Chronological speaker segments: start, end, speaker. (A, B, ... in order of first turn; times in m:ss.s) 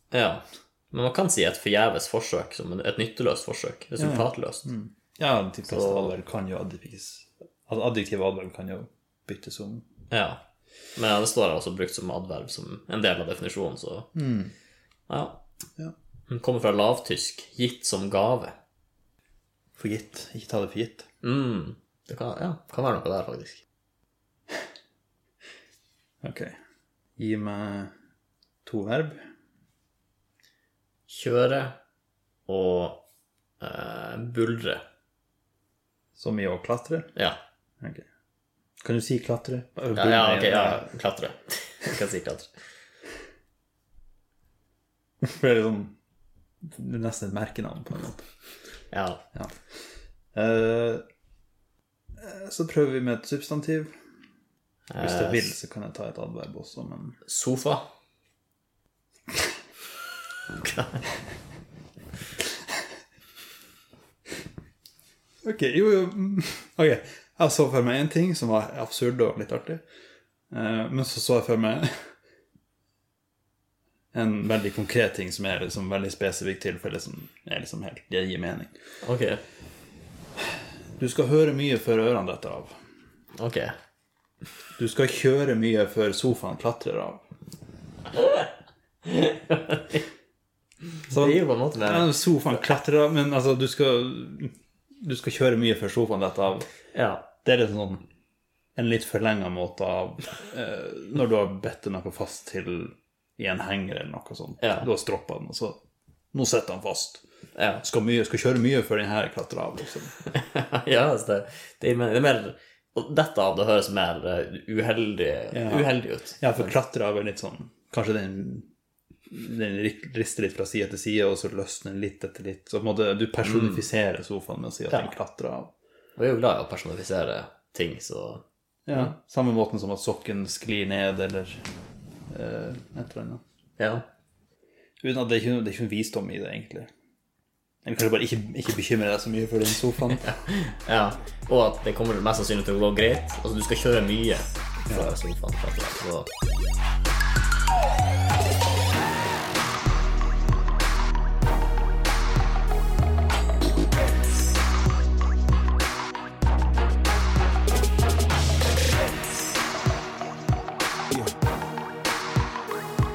0:00.1-0:04.7 A
0:04.0-0:09.9 B
0:05.7-0:06.1 A
0:10.1-0:10.4 A
0:11.0-0:14.1 A
0:14.2-0:14.5 B
0:15.1-0:15.4 A
0:16.3-0:18.6 A
0:19.8-0:21.1 B
0:21.2-0:23.6 A
0:26.2-0:26.6 B
0:27.2-0:27.9 B
0:28.6-0:29.3 B
0:31.1-0:31.8 A
0:32.5-0:33.0 A
0:33.6-0:34.8 A
0:36.2-0:37.1 B
0:37.8-0:38.1 B
0:38.8-0:40.9 B
0:39.9-0:42.5 A
0:45.2-0:46.0 B
0:46.6-0:48.2 B
0:48.9-0:49.2 A
0:50.3-0:51.0 B
0:52.2-0:53.9 B
0:54.9-0:55.5 A
0:55.0-0:57.2 B
0:57.3-0:57.8 A
1:00.5-1:01.0 A
1:05.4-1:09.8 B
1:10.5-1:12.1 B
1:14.1-1:18.7 B
1:19.0-1:19.4 A
1:21.0-1:22.7 B
1:23.4-1:23.7 A
1:24.8-1:27.2 B
1:28.1-1:28.5 A
1:29.0-1:30.0 A
1:30.9-1:32.2 A
1:31.1-1:36.7 B
1:36.9-1:37.3 A
1:37.4-1:38.1 B
1:38.8-1:45.8 B
1:44.6-1:44.9 A
1:46.3-1:47.2 B
1:47.6-1:47.8 A
1:47.8-1:50.2 B
1:50.3-1:56.7 A
1:55.5-1:58.7 B
1:59.3-2:05.7 B
2:03.4-2:03.8 A
2:06.2-2:09.1 A
2:08.9-2:11.6 B
2:12.3-2:13.4 B
2:13.8-2:14.1 A
2:15.0-2:16.9 B
2:17.8-2:20.3 B
2:20.2-2:26.3 A
2:24.9-2:25.2 B